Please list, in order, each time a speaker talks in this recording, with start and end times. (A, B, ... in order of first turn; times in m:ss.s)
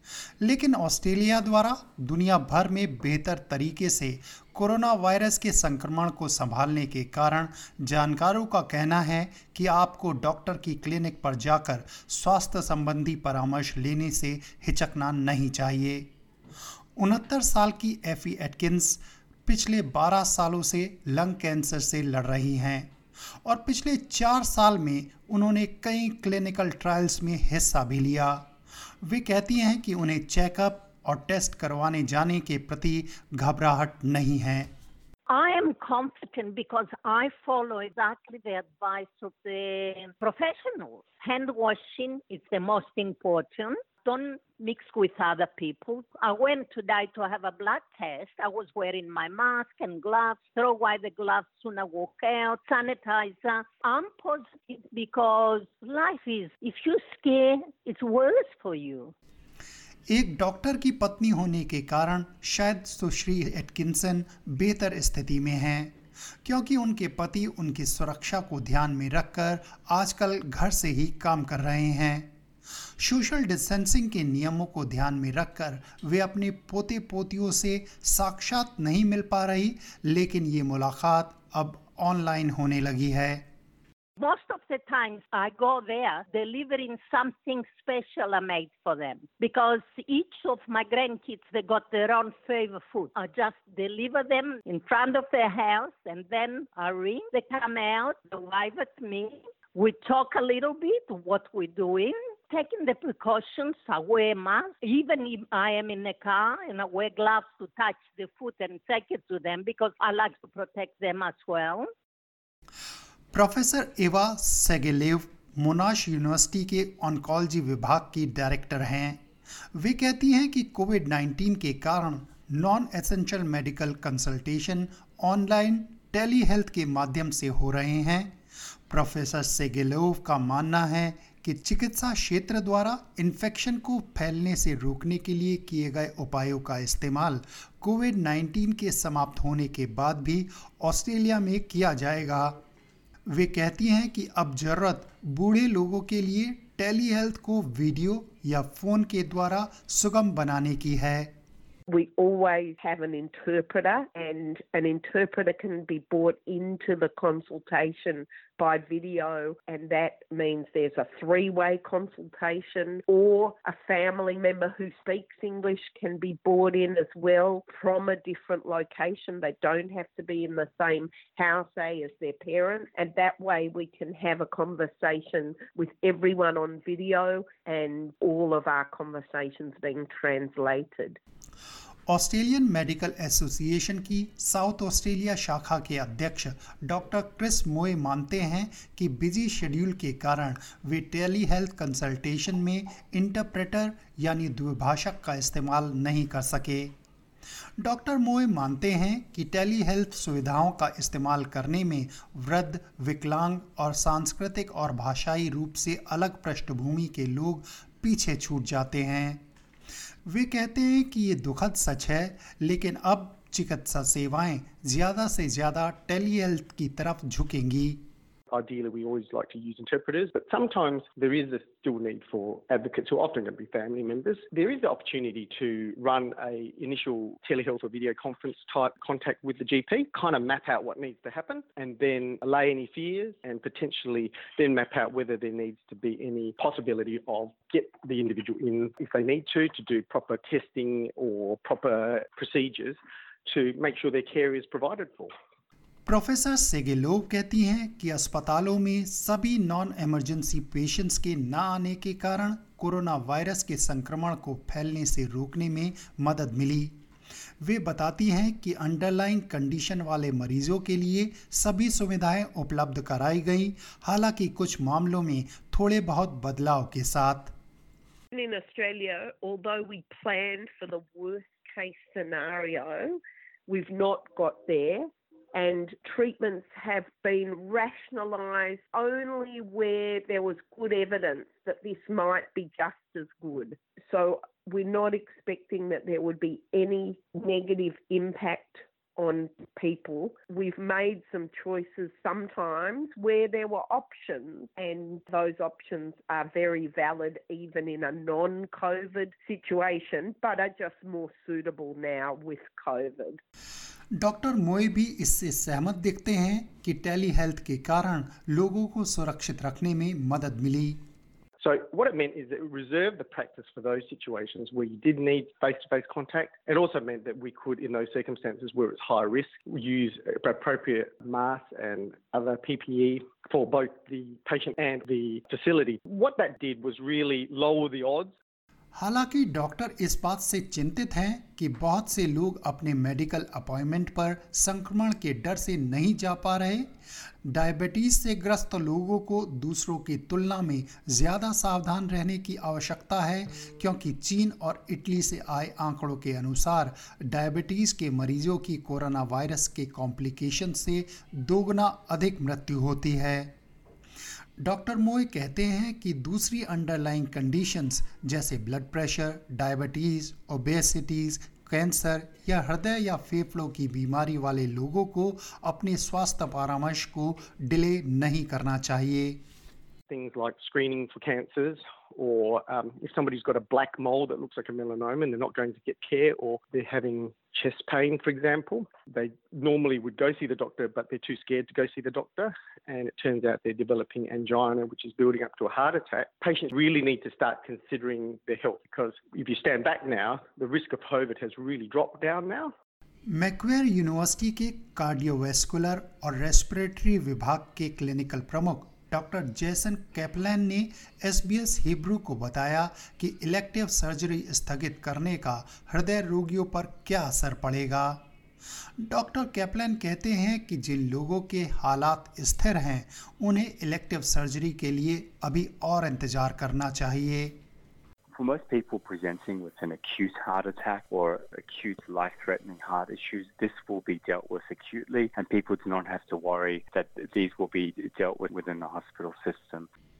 0:00.4-0:16.1 A
0:17.0-0:28.4 A
0:29.0-0:34.7 A
0:35.3-0:59.1 B
1:00.1-1:12.3 A
1:13.0-1:23.4 A
1:24.2-1:51.9 B
1:53.3-1:59.2 A
1:59.7-2:08.3 A
2:08.9-2:22.6 A
2:23.3-2:31.3 A
2:31.9-3:01.2 C
3:02.1-3:16.9 A
3:17.8-3:29.4 A
3:30.2-3:38.0 A
3:38.5-4:05.3 D
4:06.1-4:17.0 A
4:17.6-4:27.5 A
4:28.3-5:03.4 C
5:04.2-5:11.0 A
5:11.6-5:28.3 D
5:28.9-5:36.9 A
5:37.4-5:53.5 A
5:54.6-6:09.4 A
6:10.1-6:32.7 D
6:33.3-6:48.2 A
6:49.0-6:57.6 A
6:58.3-7:09.9 E